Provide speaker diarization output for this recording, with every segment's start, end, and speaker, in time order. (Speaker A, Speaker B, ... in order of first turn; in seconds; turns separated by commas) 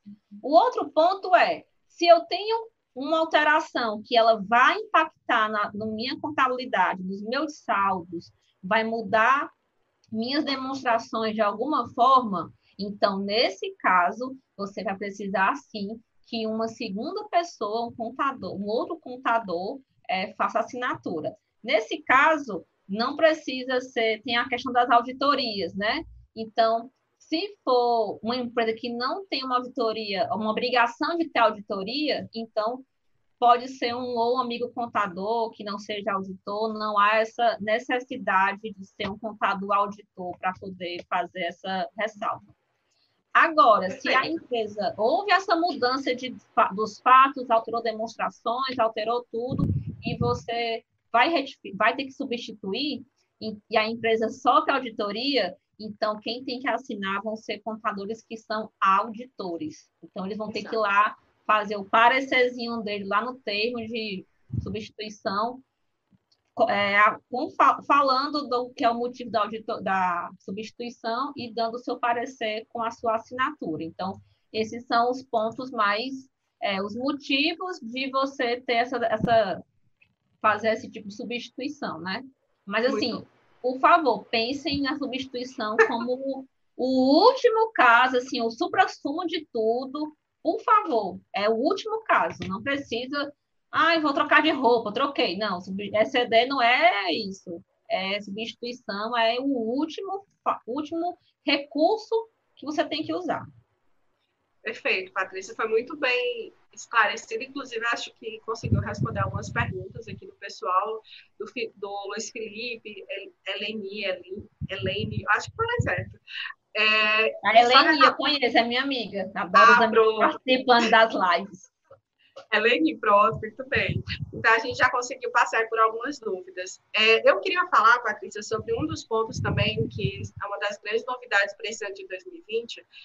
Speaker A: 0.4-9.5, Speaker A: 10.1-32.8, Speaker A: 33.4-42.5, Speaker A: 43.3-65.6, Speaker B: 43.9-44.4, Speaker B: 60.5-60.8, Speaker A: 66.5-79.6, Speaker A: 80.4-103.4, Speaker B: 82.9-83.2, Speaker B: 104.6-116.2, Speaker B: 116.7-118.2, Speaker A: 117.4-121.7, Speaker B: 119.5-120.4, Speaker B: 122.5-132.8